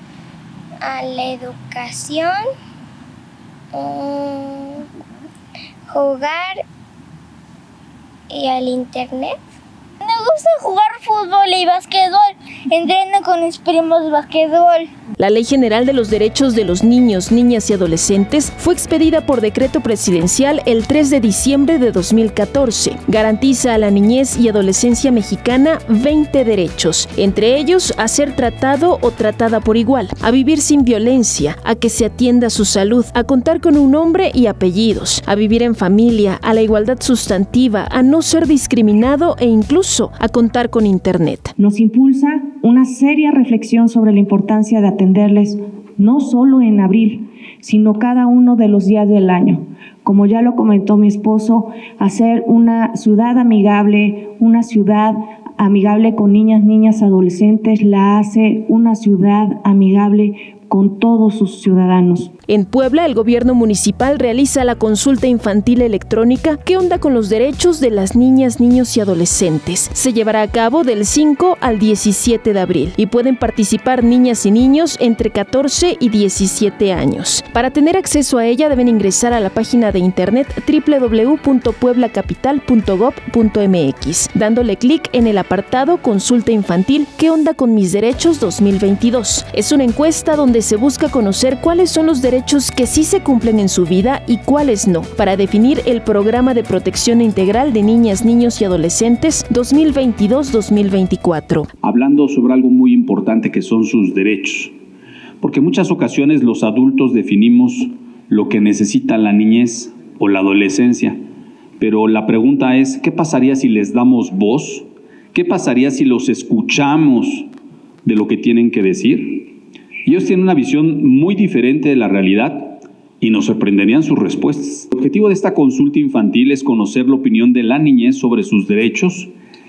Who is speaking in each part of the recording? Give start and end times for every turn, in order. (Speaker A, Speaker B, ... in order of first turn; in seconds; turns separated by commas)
Speaker A: 0.8-2.5, Speaker A: 3.7-4.9, Speaker A: 5.9-6.6, Speaker A: 8.3-9.4, Speaker B: 10.0-14.9, Speaker C: 15.2-41.5, Speaker D: 41.6-62.3, Speaker C: 62.5-101.7, Speaker E: 101.8-104.8, Speaker E: 105.4-111.2, Speaker E: 111.8-117.5, Speaker E: 118.0-119.5, Speaker E: 120.0-129.3